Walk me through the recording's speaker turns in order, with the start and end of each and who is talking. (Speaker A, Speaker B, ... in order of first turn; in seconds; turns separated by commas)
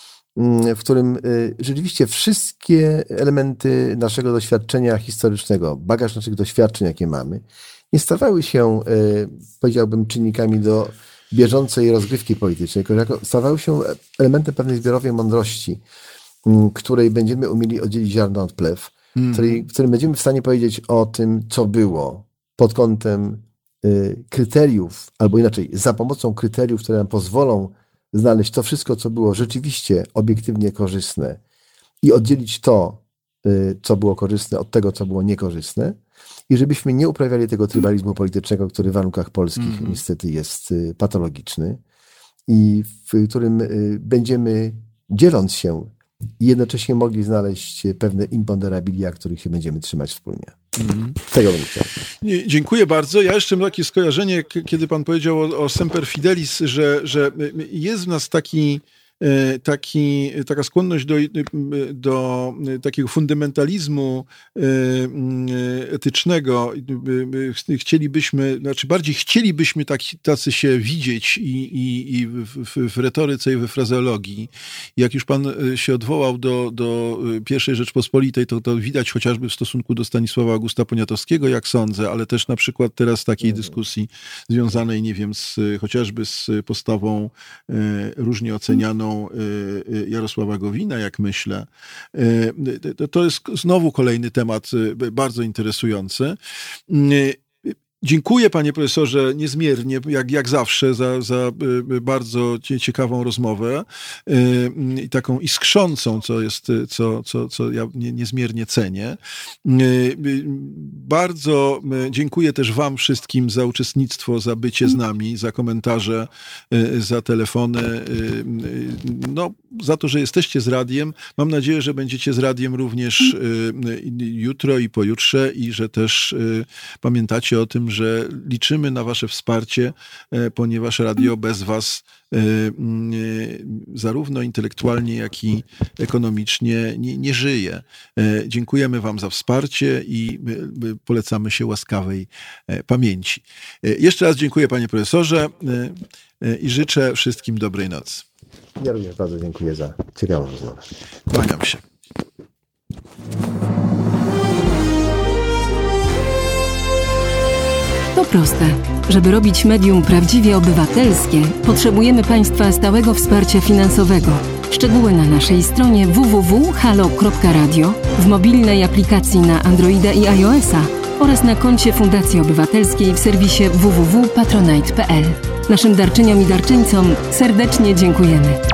Speaker A: 0.4-15.8, Speaker A: 16.4-31.4, Speaker B: 19.2-19.7, Speaker A: 32.0-36.0, Speaker A: 36.5-41.8, Speaker B: 39.6-40.0, Speaker A: 42.5-50.6, Speaker B: 50.8-51.2, Speaker A: 51.2-51.9, Speaker B: 52.2-96.4, Speaker A: 83.4-83.8, Speaker B: 96.9-148.2, Speaker A: 148.8-150.9, Speaker B: 151.3-151.8, Speaker C: 158.1-178.6